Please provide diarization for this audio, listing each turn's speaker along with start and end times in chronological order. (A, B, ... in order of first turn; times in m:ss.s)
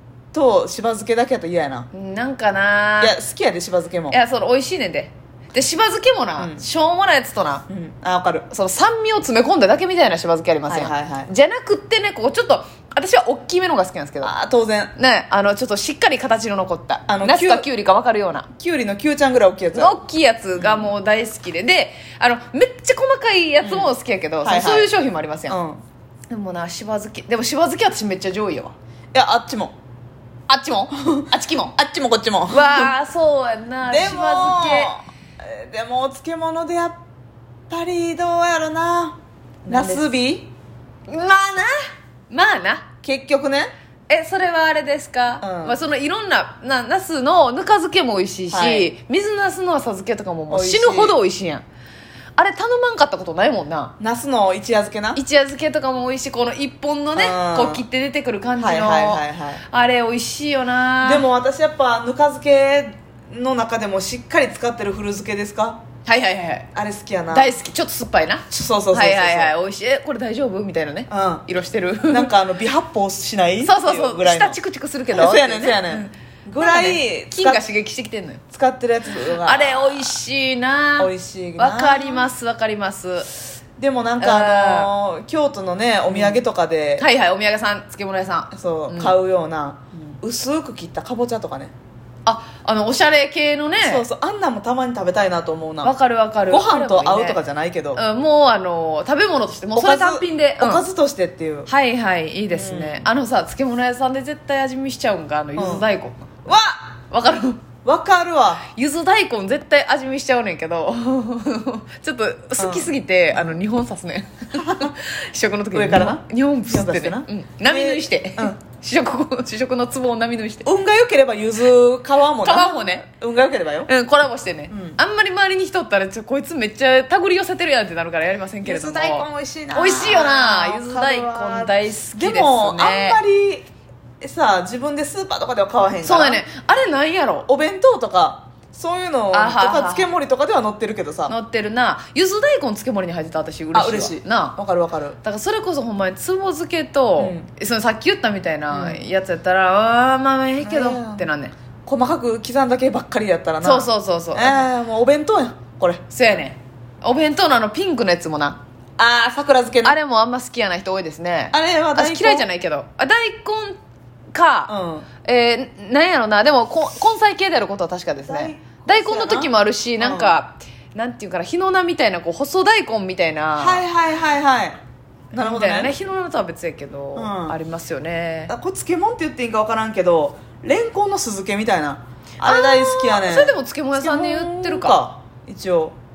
0:00.3-0:01.9 A
0:01.9-0:03.1 B
0:03.0-0:04.2 A
0:04.1-0:07.6 B
0:06.4-0:06.6 A
0:07.7-0:08.4 A
0:08.5-0:14.3 B
0:10.7-0:11.3 A
0:14.2-0:14.9 A
0:15.0-0:18.5 B
0:17.1-0:17.7 A
0:18.6-0:20.0 A
0:19.7-0:25.6 B
0:20.5-0:20.9 A
0:23.6-0:24.9 A
0:25.5-0:25.8 A
0:26.3-0:28.7 B
0:29.1-0:29.7 A
0:30.5-0:31.7 B
0:31.0-0:32.9 A
0:32.5-0:35.0 B
0:33.8-0:37.0 A
0:37.7-0:40.5 A
0:39.7-0:40.0 B
0:41.1-0:41.8 B
0:42.3-0:42.9 B
0:43.0-0:43.7 A
0:44.1-0:51.6 B
0:45.4-0:45.8 A
0:48.5-0:48.9 A
0:50.5-0:51.2 A
0:52.4-0:53.9 B
0:54.0-0:55.2 A
0:55.1-1:01.2 B
0:57.1-0:57.8 A
0:58.6-0:59.6 A
1:01.0-1:05.8 A
1:06.0-1:06.7 B
1:06.7-1:07.5 A
1:07.3-1:12.3 B
1:08.5-1:09.5 A
1:11.1-1:11.4 A
1:12.1-1:14.6 A
1:13.6-1:18.4 B
1:15.1-1:17.6 A
1:18.5-1:20.1 A
1:19.2-1:23.3 B
1:21.0-1:22.3 A
1:23.8-1:27.1 A
1:24.2-1:24.9 B
1:26.1-1:26.4 B
1:27.0-1:29.2 B
1:28.5-1:31.7 A
1:32.2-1:34.0 B
1:33.8-1:35.9 A
1:35.8-1:37.4 B
1:36.5-1:38.0 A
1:37.9-1:40.8 B
1:39.8-1:41.7 A
1:41.7-1:46.4 B
1:42.5-1:43.1 A
1:45.6-1:45.9 A
1:46.4-1:46.9 A
1:47.1-1:47.6 B
1:47.8-1:48.6 A
1:48.7-2:00.7 B
1:52.6-1:53.6 A
1:54.6-1:54.9 A
1:55.7-1:58.6 A
2:00.6-2:03.9 A
2:02.4-2:03.0 B
2:03.9-2:13.2 B
2:04.7-2:05.0 A
2:08.6-2:13.7 A
2:14.2-2:16.4 A
2:16.0-2:17.5 B
2:17.5-2:21.3 A
2:19.3-2:20.1 B
2:21.3-2:24.6 B
2:23.7-2:25.2 A
2:25.2-2:31.5 B
2:27.2-2:27.5 A
2:28.7-2:29.0 A
2:30.6-2:31.3 A
2:31.8-2:36.1 A
2:33.6-2:34.7 B
2:36.1-2:38.6 B
2:39.0-2:40.0 A
2:39.8-2:43.8 B
2:41.5-2:42.5 A
2:44.3-2:53.8 B
2:44.7-2:45.1 A
2:48.2-2:50.4 A
2:53.6-2:54.8 A
2:55.3-2:55.9 A
2:55.4-2:58.5 B
2:57.1-2:57.6 A
2:58.5-3:05.9 A
3:02.4-3:05.0 B